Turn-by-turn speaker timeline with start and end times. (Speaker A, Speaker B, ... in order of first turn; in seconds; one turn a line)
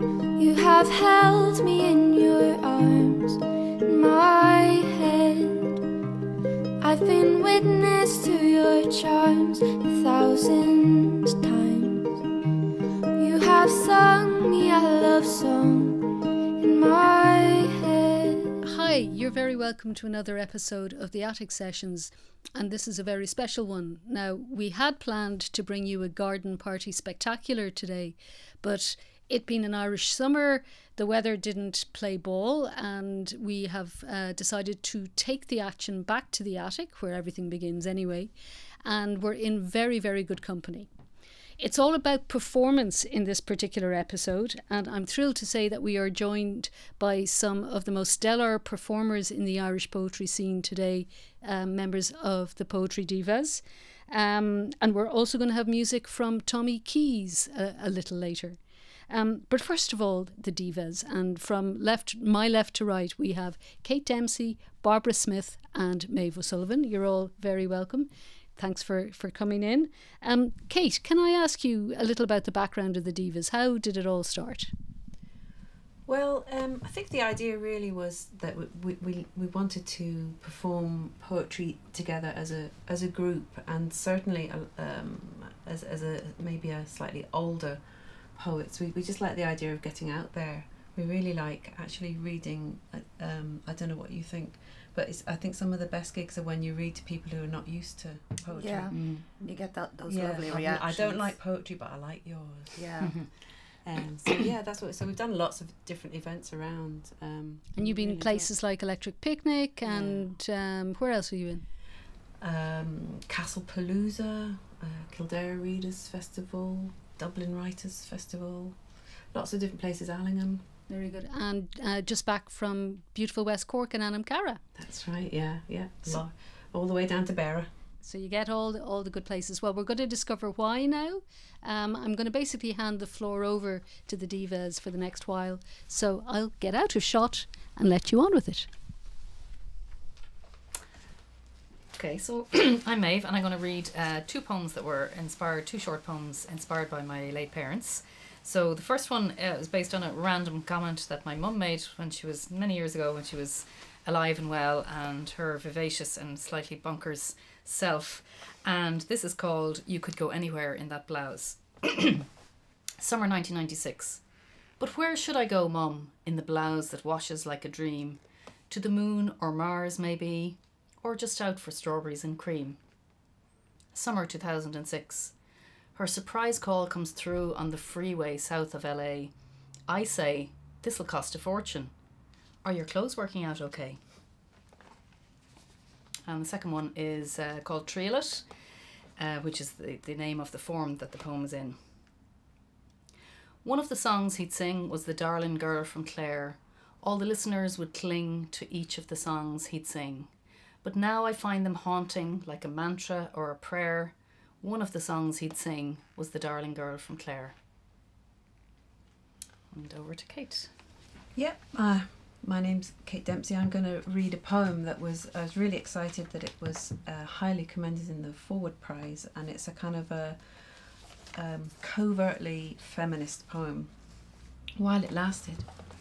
Speaker A: 0.4-5.8
Speaker A: 6.8-12.2
Speaker A: 13.2-16.0
Speaker A: 16.6-18.6
Speaker B: 18.6-38.3
Speaker B: 38.8-40.9
Speaker B: 41.6-58.6
Speaker B: 59.1-74.7
Speaker C: 76.1-87.8
Speaker C: 88.3-99.0
Speaker D: 98.5-101.3
Speaker E: 98.9-99.2
Speaker C: 100.1-102.8
Speaker D: 102.8-103.2
Speaker E: 103.0-103.3
Speaker C: 103.8-108.5
Speaker B: 107.8-111.6
Speaker C: 109.8-110.3
Speaker C: 112.4-118.8
Speaker C: 119.3-120.7
Speaker B: 120.9-124.6
Speaker C: 124.8-127.7
Speaker B: 128.0-138.7
Speaker E: 141.9-162.3
Speaker E: 163.0-164.2
Speaker E: 164.8-172.8
Speaker E: 173.9-175.3
Speaker E: 175.9-179.3
Speaker E: 179.9-181.9
Speaker E: 182.6-184.0
Speaker E: 186.3-188.5
Speaker E: 189.2-191.8
Speaker E: 193.6-200.3
Speaker E: 200.8-207.6
Speaker E: 209.7-210.7
Speaker C: 211.3-220.4
Speaker C: 221.3-223.9
Speaker C: 224.8-225.7